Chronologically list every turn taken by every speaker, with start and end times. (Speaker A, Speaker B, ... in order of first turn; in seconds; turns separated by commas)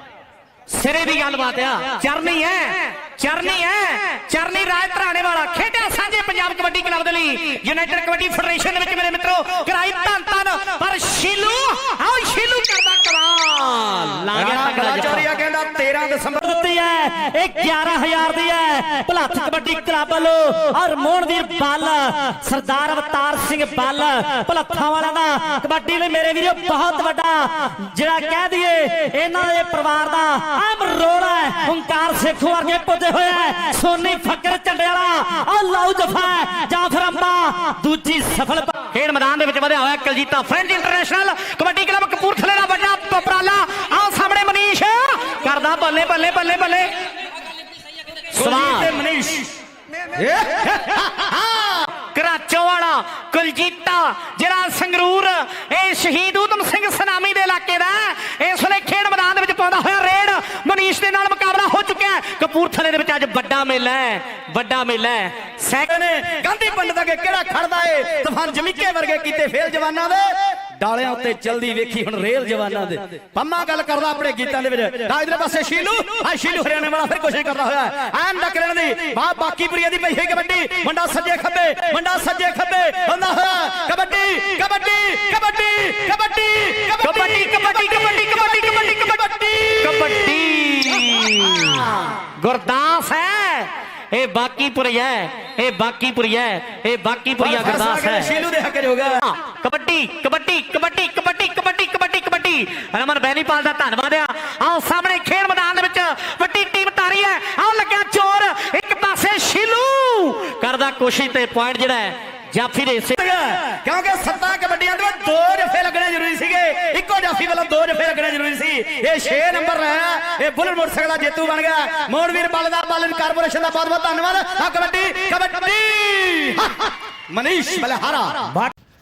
Speaker A: 0.7-15.3, Speaker B: 14.3-16.5, Speaker C: 16.4-38.8, Speaker A: 38.9-46.9, Speaker A: 48.3-48.9, Speaker B: 48.3-49.5, Speaker B: 50.2-51.8, Speaker A: 52.0-65.9, Speaker B: 65.8-90.2, Speaker A: 87.0-89.2, Speaker A: 89.8-98.3, Speaker B: 97.4-99.2, Speaker A: 99.2-113.2, Speaker B: 113.1-128.6